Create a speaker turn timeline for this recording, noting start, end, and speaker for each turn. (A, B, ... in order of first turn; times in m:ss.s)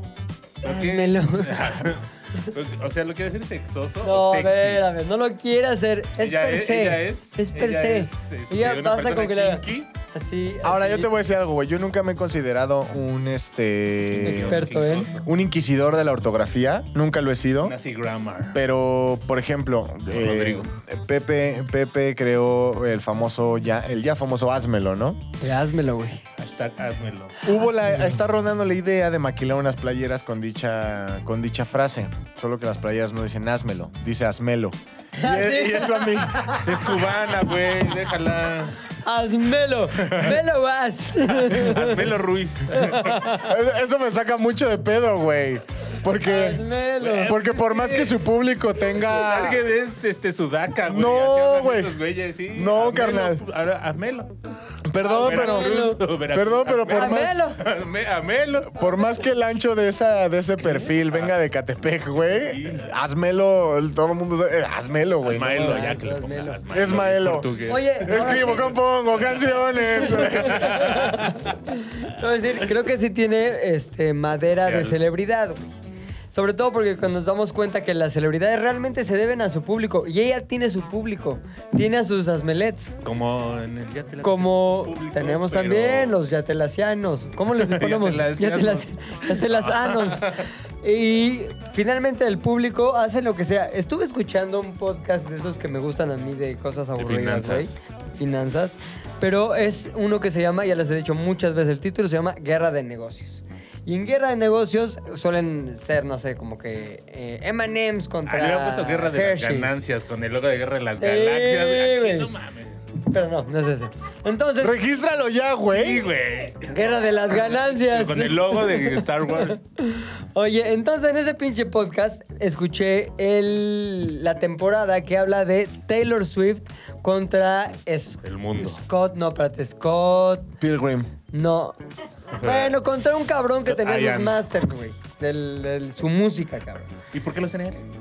0:00.6-0:01.8 A
0:00.6-0:04.9 B
0:04.0-0:11.1 A
0:06.2-0:09.9 B
0:10.6-0:14.6 C
0:14.2-0:15.3 B
0:14.2-0:15.1 A
0:15.2-0:17.8 C
0:17.6-0:18.6 B
0:18.5-0:25.2 C
0:20.1-0:20.7 B
0:25.4-0:26.2 A
0:26.4-0:27.4 B
0:27.4-0:36.7 C
0:35.2-0:36.9 A
0:36.6-0:38.8 B
0:39.0-0:42.1 A
0:41.3-0:43.3 B
0:42.7-0:43.5 A
0:43.4-0:46.6 C
0:46.2-0:47.4 A
0:47.0-0:48.2 B
0:47.2-0:49.6 C
0:48.9-0:54.3 B
0:50.9-0:52.0 C
0:52.5-0:53.4 C
0:54.8-0:57.4 C
0:55.0-0:56.0 A
0:55.2-0:58.8 B
0:56.9-0:57.6 A
0:58.7-1:05.9 C
1:01.0-1:01.3 B
1:02.2-1:02.9 B
1:05.2-1:09.5 B
1:05.4-1:06.6 A
1:06.7-1:07.5 C
1:07.6-1:08.8 A
1:08.0-1:11.1 C
1:09.9-1:15.7 A
1:10.1-1:11.4 B
1:14.6-1:15.0 B
1:16.3-1:23.0 A
1:23.0-1:26.2 B
1:24.2-1:49.8 A
1:27.6-1:30.5 B
1:37.0-1:37.8 B
1:48.3-1:52.8 B
1:51.0-1:52.3 A
1:53.1-1:54.7 A
1:54.6-1:56.0 C
1:55.7-1:56.7 B
1:56.7-2:10.5 A
1:57.3-1:59.6 B
2:08.2-2:08.8 B
2:10.6-2:11.1 C
2:11.3-2:11.8 A
2:12.3-2:16.9 A
2:12.4-2:12.8 B
2:13.6-2:14.4 B
2:17.1-2:17.8 B